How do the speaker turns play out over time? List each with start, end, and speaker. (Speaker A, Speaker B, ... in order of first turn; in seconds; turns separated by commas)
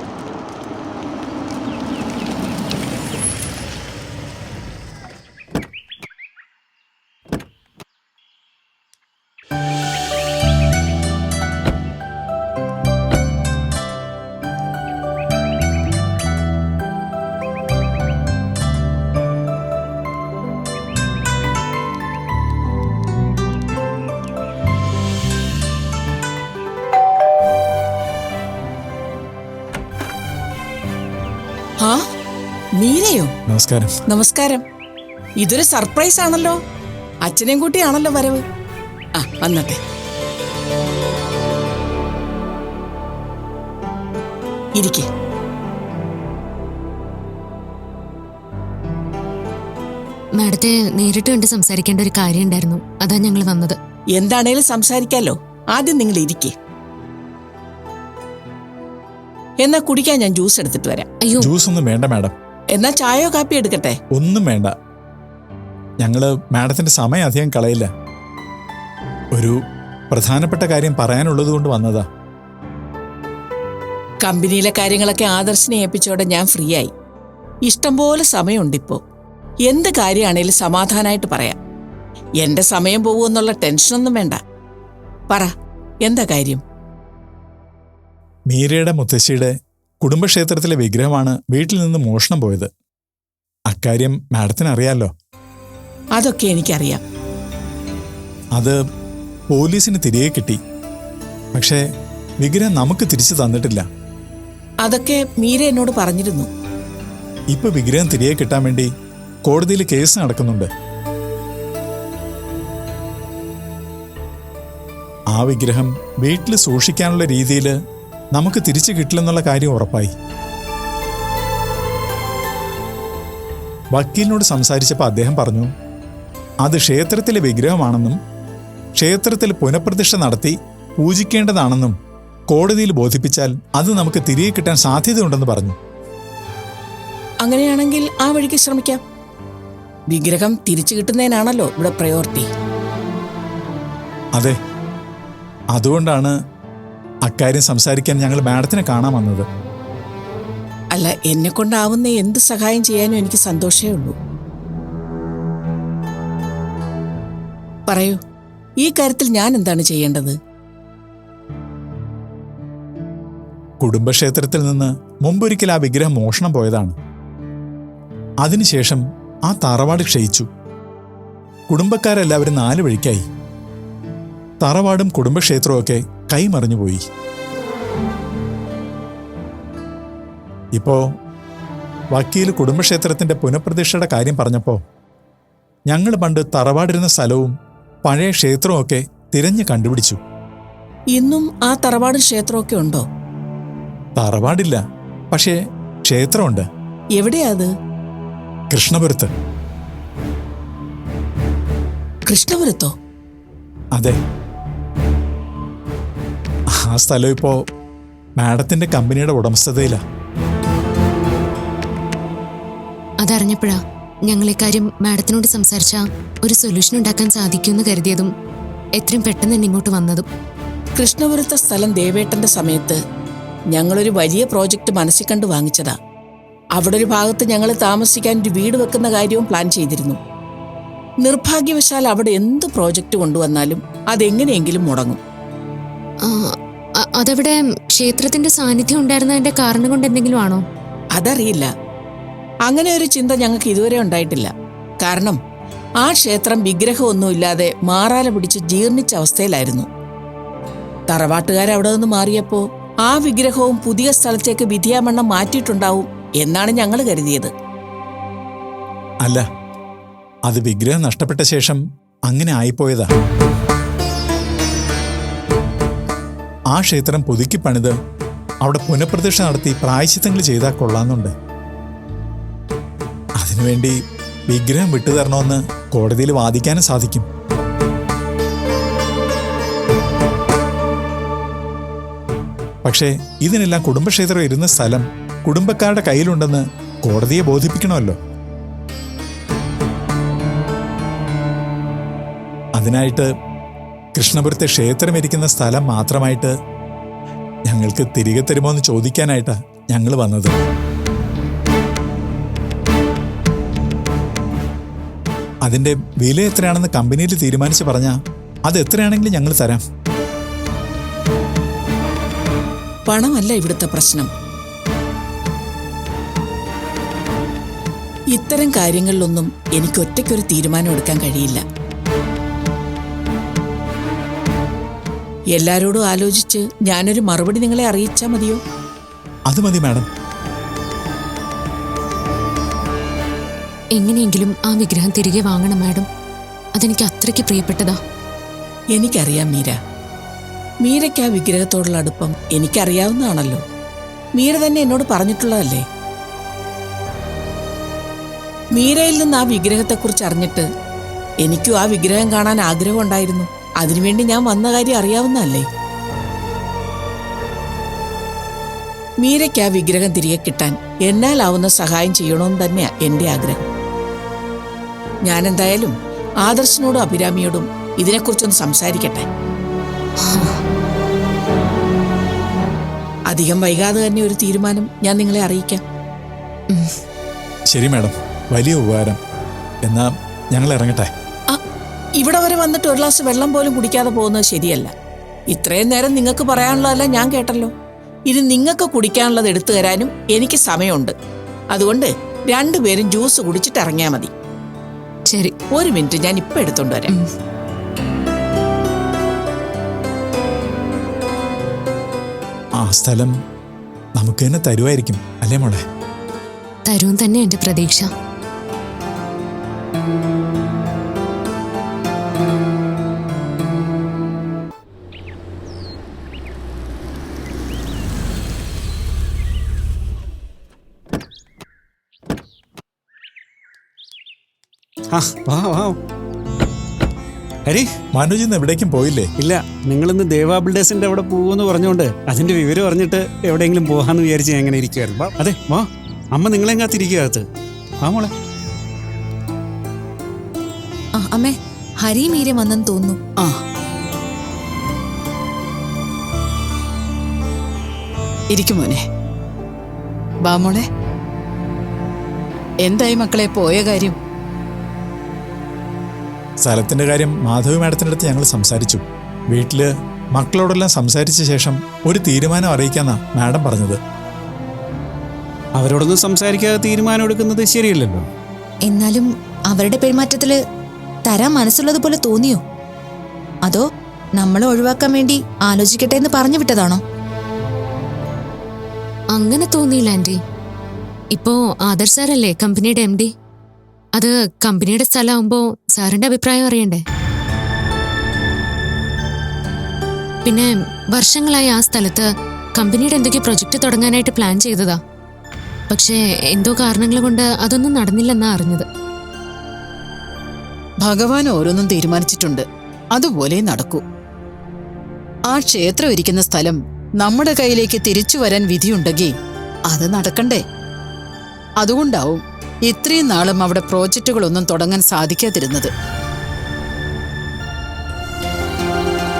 Speaker A: 32.8-33.3, Speaker B: 33.5-34.0, Speaker A: 34.1-34.6, Speaker A: 35.4-36.6, Speaker A: 37.2-38.4, Speaker A: 39.2-39.8, Speaker A: 44.8-45.1, Speaker C: 50.4-53.8, Speaker A: 54.1-56.5, Speaker A: 59.6-61.1, Speaker C: 61.2-61.5, Speaker B: 61.4-62.3, Speaker A: 62.7-64.0, Speaker B: 64.1-64.7, Speaker B: 66.0-67.9, Speaker B: 70.1-72.0, Speaker A: 74.2-76.9, Speaker A: 77.7-79.0, Speaker A: 79.7-81.6, Speaker A: 82.4-84.4, Speaker A: 86.0-86.6, Speaker B: 88.5-89.5, Speaker B: 90.0-92.7, Speaker B: 93.7-95.1, Speaker A: 96.2-97.0, Speaker B: 99.5-100.6, Speaker B: 101.5-101.8, Speaker B: 102.4-103.8, Speaker A: 104.8-106.5, Speaker B: 107.5-108.9, Speaker B: 109.5-110.7, Speaker B: 115.3-117.7, Speaker B: 118.3-120.1, Speaker B: 123.9-125.7, Speaker B: 126.6-128.2, Speaker B: 129.0-131.9, Speaker B: 132.5-135.8, Speaker A: 137.4-139.0, Speaker A: 140.1-142.5, Speaker B: 145.7-146.3, Speaker B: 147.3-149.4, Speaker A: 150.9-154.1, Speaker A: 157.9-158.2, Speaker A: 158.8-160.3, Speaker B: 163.8-167.0, Speaker B: 168.4-170.5, Speaker B: 171.7-173.2, Speaker B: 174.6-177.0, Speaker B: 180.8-181.0, Speaker B: 182.1-184.8, Speaker B: 185.9-187.5, Speaker B: 188.0-190.2, Speaker A: 191.1-193.0, Speaker B: 194.2-194.8, Speaker B: 195.3-196.6, Speaker A: 197.2-197.7, Speaker B: 198.7-199.3, Speaker A: 202.3-202.9, Speaker B: 206.7-207.6, Speaker B: 208.4-210.0, Speaker C: 213.2-218.3, Speaker C: 219.0-220.3, Speaker A: 220.9-223.0, Speaker A: 223.7-225.9, Speaker A: 226.8-230.2, Speaker A: 231.2-235.2, Speaker C: 236.2-236.6, Speaker C: 237.2-240.6, Speaker A: 241.1-241.7, Speaker A: 242.7-244.5, Speaker A: 245.0-245.4, Speaker A: 246.0-249.9, Speaker A: 251.1-257.5, Speaker B: 260.5-263.1, Speaker B: 266.7-267.9, Speaker B: 268.6-271.3, Speaker B: 273.4-273.9, Speaker B: 274.5-277.3, Speaker B: 282.8-288.2, Speaker B: 292.8-293.3, Speaker B: 294.1-296.5, Speaker B: 297.7-300.5, Speaker B: 305.6-308.1, Speaker B: 308.7-309.8, Speaker A: 313.1-314.3, Speaker A: 318.3-321.6, Speaker A: 325.5-328.6, Speaker B: 329.5-330.1, Speaker C: 334.0-336.1, Speaker C: 336.8-338.0, Speaker A: 338.9-339.8, Speaker A: 340.8-343.6, Speaker A: 344.4-345.8, Speaker A: 348.7-350.6, Speaker A: 351.4-355.6, Speaker A: 359.2-363.7, Speaker A: 365.2-369.2, Speaker C: 370.2-370.6, Speaker A: 373.3-375.8, Speaker B: 377.7-379.2, Speaker B: 379.9-381.1, Speaker A: 382.2-384.9, Speaker A: 385.5-387.7, Speaker A: 388.3-391.1, Speaker A: 391.7-394.3, Speaker A: 395.7-397.1, Speaker B: 402.8-403.3, Speaker B: 404.2-405.8, Speaker C: 406.9-408.1, Speaker D: 425.1-426.0, Speaker B: 428.1-429.3, Speaker D: 429.4-437.5, Speaker D: 438.0-438.3, Speaker E: 441.1-443.2, Speaker F: 448.5-449.0, Speaker F: 450.5-450.9, Speaker F: 452.8-454.2, Speaker B: 456.6-464.0, Speaker D: 465.8-468.3, Speaker E: 468.9-470.6, Speaker E: 471.2-472.6, Speaker E: 474.4-477.0, Speaker C: 479.3-480.4, Speaker C: 481.3-483.3, Speaker C: 484.1-487.0, Speaker C: 490.4-495.0, Speaker C: 495.9-498.9, Speaker F: 501.0-502.6, Speaker F: 503.2-504.0, Speaker F: 505.5-509.3, Speaker F: 509.9-510.6, Speaker F: 511.8-515.9